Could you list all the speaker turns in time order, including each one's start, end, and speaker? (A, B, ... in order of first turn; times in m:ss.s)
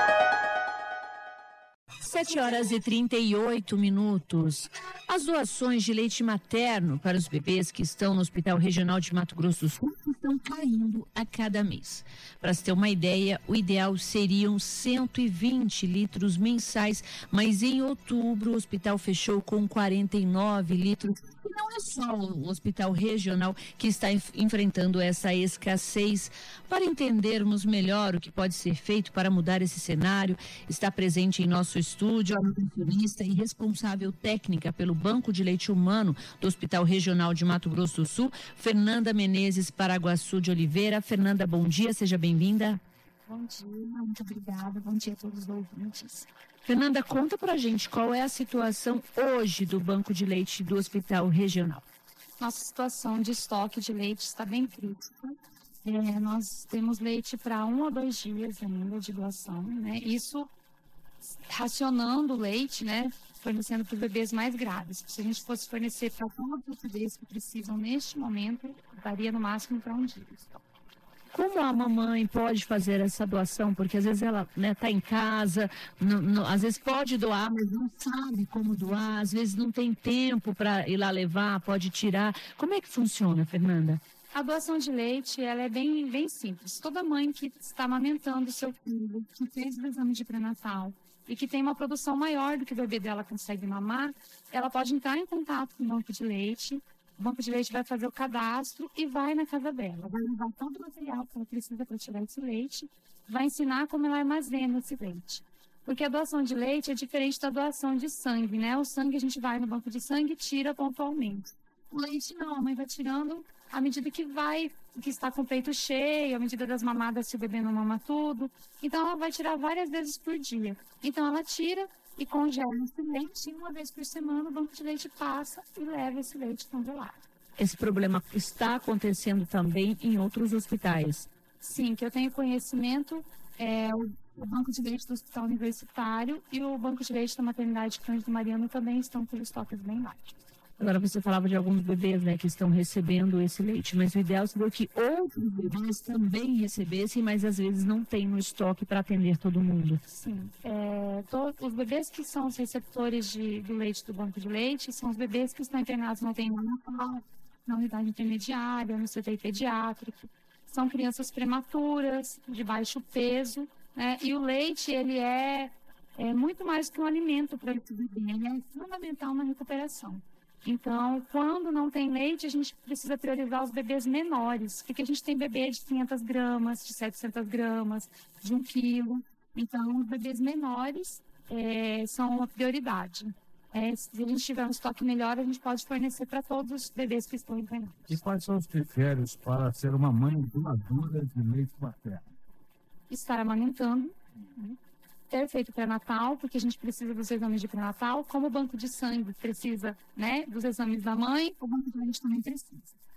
0:02.0-0:42.8 A
0:43.3-0:46.3 B
0:46.6-0:51.8 A
0:52.4-1:00.5 B
1:01.2-1:10.6 B
1:11.3-1:24.0 A
1:24.3-2:07.2 B
2:07.6-2:11.3 A
2:11.6-2:20.4 B
2:20.8-2:30.0 A
2:30.1-3:08.0 B
3:08.1-3:12.3 C
3:13.1-3:14.8 B
3:15.3-3:22.9 B